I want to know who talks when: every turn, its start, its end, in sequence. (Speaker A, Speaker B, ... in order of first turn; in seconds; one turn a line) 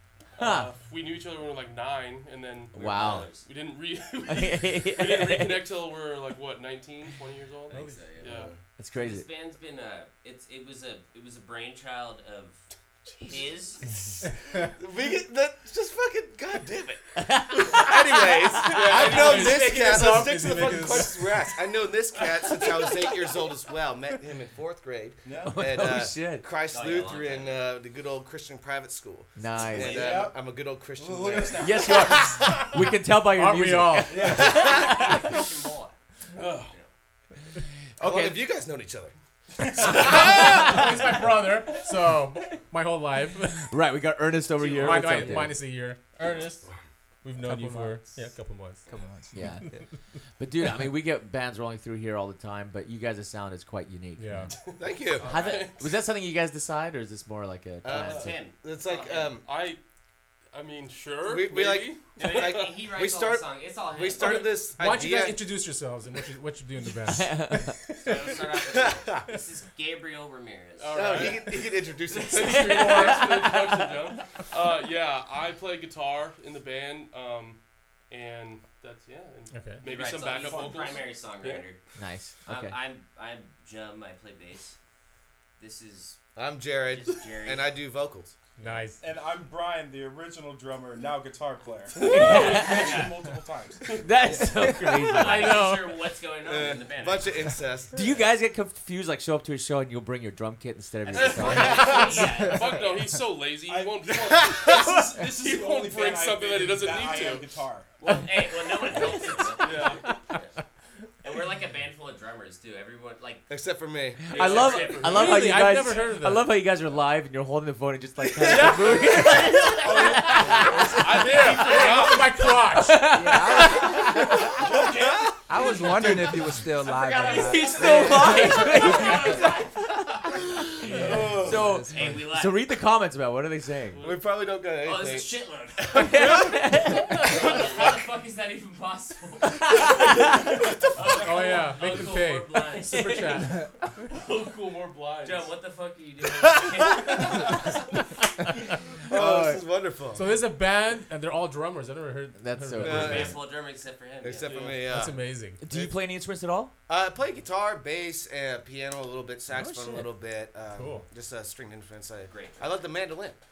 Speaker A: 0.4-8.5
Speaker B: 0.4-0.7
Speaker B: 2.7-3.3
Speaker C: 2.7-3.5
Speaker B: 4.2-5.7
Speaker C: 7.7-13.9
Speaker D: 8.2-8.6
Speaker B: 8.8-9.3
Speaker D: 14.6-32.7
Speaker B: 17.2-19.2
Speaker A: 18.6-19.7
Speaker E: 19.0-21.5
Speaker F: 19.4-21.1
Speaker F: 25.2-25.7
Speaker B: 25.4-26.4
Speaker C: 26.7-27.6
Speaker B: 29.4-30.3
Speaker F: 29.7-32.2
Speaker B: 31.6-35.4
Speaker E: 33.3-34.3
Speaker F: 34.1-34.7
Speaker D: 34.3-35.1
Speaker C: 34.4-36.0
Speaker A: 36.4-36.7
Speaker B: 38.0-38.5
Speaker D: 38.0-39.1
Speaker D: 39.7-40.9
Speaker E: 39.8-43.8
Speaker B: 39.9-40.9
Speaker B: 43.6-45.6
Speaker A: 44.6-45.5
Speaker E: 44.7-46.7
Speaker E: 47.2-49.8
Speaker G: 47.5-48.0
Speaker G: 48.9-49.8
Speaker B: 49.3-49.7
Speaker B: 50.4-54.5
Speaker E: 54.2-54.6
Speaker A: 54.6-55.9
Speaker D: 54.8-55.2
Speaker C: 55.2-55.7
Speaker B: 55.2-58.4
Speaker D: 57.8-59.5
Speaker C: 57.9-59.3
Speaker A: 59.4-59.8
Speaker A: 60.5-62.5
Speaker D: 61.2-65.5
Speaker C: 62.2-64.5
Speaker E: 64.2-68.1
Speaker B: 67.1-67.8
Speaker C: 68.0-71.4
Speaker D: 68.6-69.4
Speaker A: 70.8-77.6
Speaker D: 70.9-73.2
Speaker B: 72.3-74.2
Speaker A: 78.1-81.6
Speaker E: 79.5-79.8
Speaker C: 79.8-81.8
Speaker F: 80.3-81.1
Speaker B: 82.0-82.8
Speaker C: 82.5-84.8
Speaker C: 85.6-86.2
Speaker D: 86.4-88.3
Speaker C: 86.9-87.7
Speaker E: 88.6-89.0
Speaker F: 89.0-94.0
Speaker A: 92.0-93.0
Speaker C: 92.0-93.1
Speaker B: 92.1-93.0
Speaker A: 93.8-94.1
Speaker B: 94.0-95.8
Speaker D: 94.2-94.5
Speaker C: 95.1-97.4
Speaker E: 95.1-96.0
Speaker D: 96.4-98.2
Speaker B: 97.9-102.3
Speaker A: 101.0-107.5
Speaker C: 101.1-103.1
Speaker F: 103.7-107.9
Speaker D: 104.3-104.9
Speaker C: 108.0-110.5
Speaker A: 109.6-110.1
Speaker C: 111.2-113.5
Speaker D: 113.5-114.4
Speaker A: 114.3-115.5
Speaker B: 114.3-121.0
Speaker C: 114.3-115.3
Speaker E: 115.0-116.6
Speaker E: 118.4-119.0
Speaker C: 119.2-120.6
Speaker F: 119.8-121.0
Speaker A: 120.9-122.5
Speaker E: 121.1-123.9
Speaker C: 121.4-122.2
Speaker B: 122.7-124.5
Speaker G: 123.0-124.2
Speaker F: 124.5-126.2
Speaker D: 125.1-125.4
Speaker G: 125.5-129.1
Speaker C: 126.8-130.3
Speaker B: 127.4-129.6
Speaker F: 127.6-128.4
Speaker G: 130.9-132.2
Speaker D: 130.9-131.7
Speaker B: 131.3-134.0
Speaker C: 131.9-132.7
Speaker A: 133.9-134.2
Speaker D: 134.0-136.7
Speaker C: 134.8-136.3
Speaker B: 135.9-137.4
Speaker C: 137.2-140.2
Speaker D: 137.2-137.9
Speaker A: 137.4-138.0
Speaker C: 140.9-143.6
Speaker E: 141.2-143.8
Speaker A: 141.8-142.1
Speaker A: 144.1-145.5
Speaker C: 145.2-147.8
Speaker D: 146.4-147.4
Speaker D: 149.1-150.4
Speaker B: 149.1-149.6
Speaker E: 150.1-153.3
Speaker B: 152.4-153.4
Speaker D: 152.8-153.5
Speaker C: 152.8-154.6
Speaker D: 154.2-155.9
Speaker A: 154.4-154.9
Speaker E: 154.8-155.6
Speaker B: 155.6-156.7
Speaker D: 156.9-163.4
Speaker E: 159.5-160.1
Speaker E: 160.7-161.1
Speaker C: 162.3-162.8